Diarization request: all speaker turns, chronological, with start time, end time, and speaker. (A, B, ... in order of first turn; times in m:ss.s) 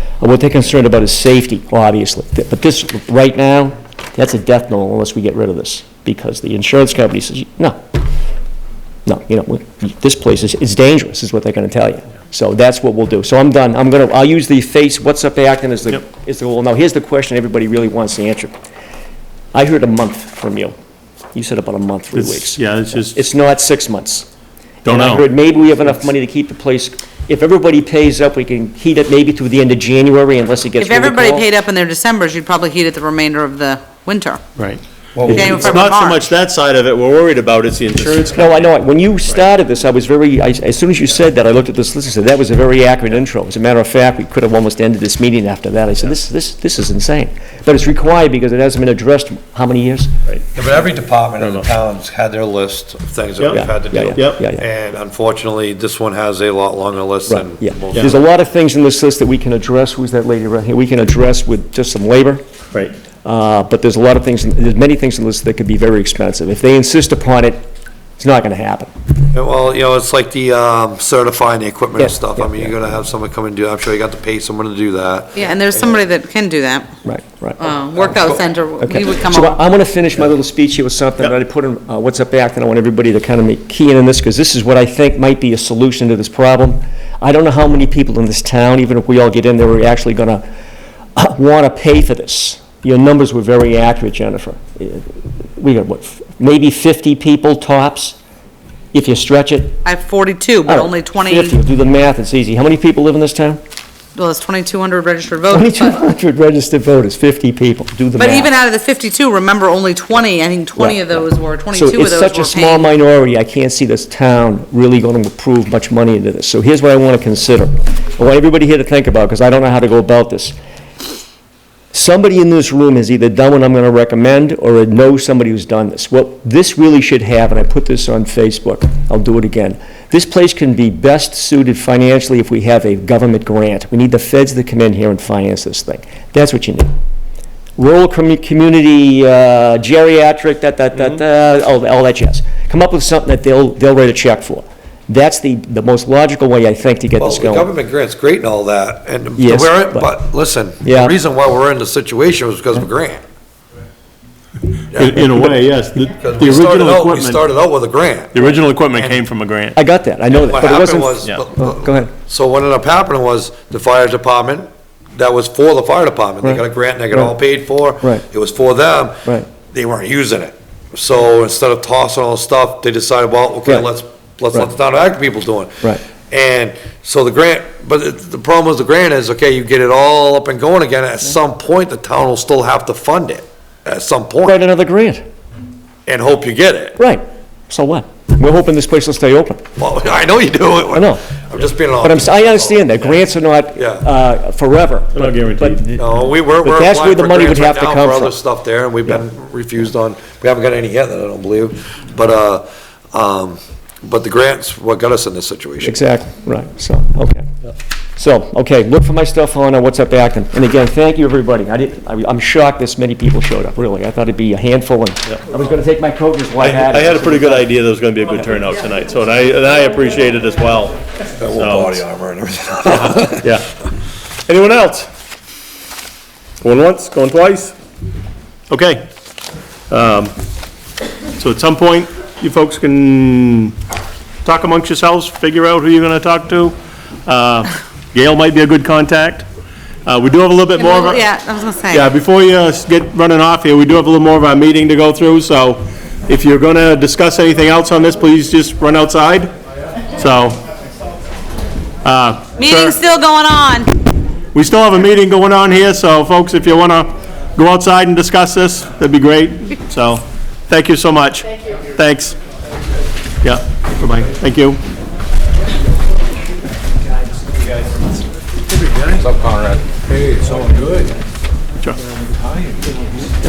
0:00.2-0:07.9 A
0:09.0-0:18.5 A
0:19.5-0:20.8 A
0:21.3-0:24.2 A
0:22.1-0:23.2 B
0:24.8-0:31.5 A
0:24.8-0:25.2 B
0:30.8-0:34.4 C
0:34.6-0:38.6 B
0:35.1-0:35.8 D
0:35.2-0:35.6 A
0:35.3-0:36.3 C
0:38.3-0:50.1 A
0:50.5-0:58.2 D
0:51.4-0:51.7 B
0:53.4-0:54.4 B
0:53.5-0:54.6 A
0:57.3-1:02.4 A
1:03.2-1:07.6 A
1:08.2-1:08.9 A
1:09.3-1:16.0 D
1:12.0-1:12.7 A
1:15.3-1:16.9 C
1:17.0-1:17.6 A
1:17.6-1:19.6 C
1:17.9-1:18.4 D
1:18.8-1:30.4 A
1:31.2-1:38.2 A
1:38.9-1:39.8 A
1:39.8-1:41.6 C
1:40.7-1:43.6 A
1:44.1-1:46.0 C
1:45.5-1:48.5 A
1:48.2-1:52.9 C
1:50.8-2:00.6 A
2:01.9-2:16.9 A
2:17.8-2:27.7 A
2:27.2-2:33.2 D
2:29.4-2:30.2 A
2:30.8-2:31.2 A
2:34.9-2:35.4 D
2:34.9-2:37.4 B
2:36.2-2:38.4 D
2:38.3-2:39.8 B
2:39.8-2:42.1 A
2:40.3-3:04.6 D
2:46.4-2:47.4 A
3:04.4-3:05.2 A
3:06.1-3:07.0 D
3:07.0-3:09.7 A
3:09.8-3:13.0 D
3:10.9-3:11.3 A
3:12.0-3:18.4 A
3:13.8-3:14.0 D
3:15.1-3:15.8 B
3:16.0-3:26.0 D
3:25.8-3:27.5 A
3:28.2-3:37.7 A
3:36.6-3:41.0 B
3:41.4-3:43.5 D
3:41.5-3:42.0 B
3:42.9-3:43.7 B
3:44.5-3:45.1 B
3:46.6-3:47.8 B
3:48.7-3:49.0 B
3:49.9-3:50.3 B
3:51.4-3:53.8 B
3:54.4-3:59.4 B
4:00.1-4:01.2 B
4:00.8-4:02.1 C
4:01.9-4:09.5 B
4:10.2-4:10.6 B
4:12.0-4:13.0 B
4:12.6-4:13.9 C
4:14.5-4:22.4 B
4:23.4-4:24.8 B
4:28.7-4:31.1 E
4:32.4-4:33.0 E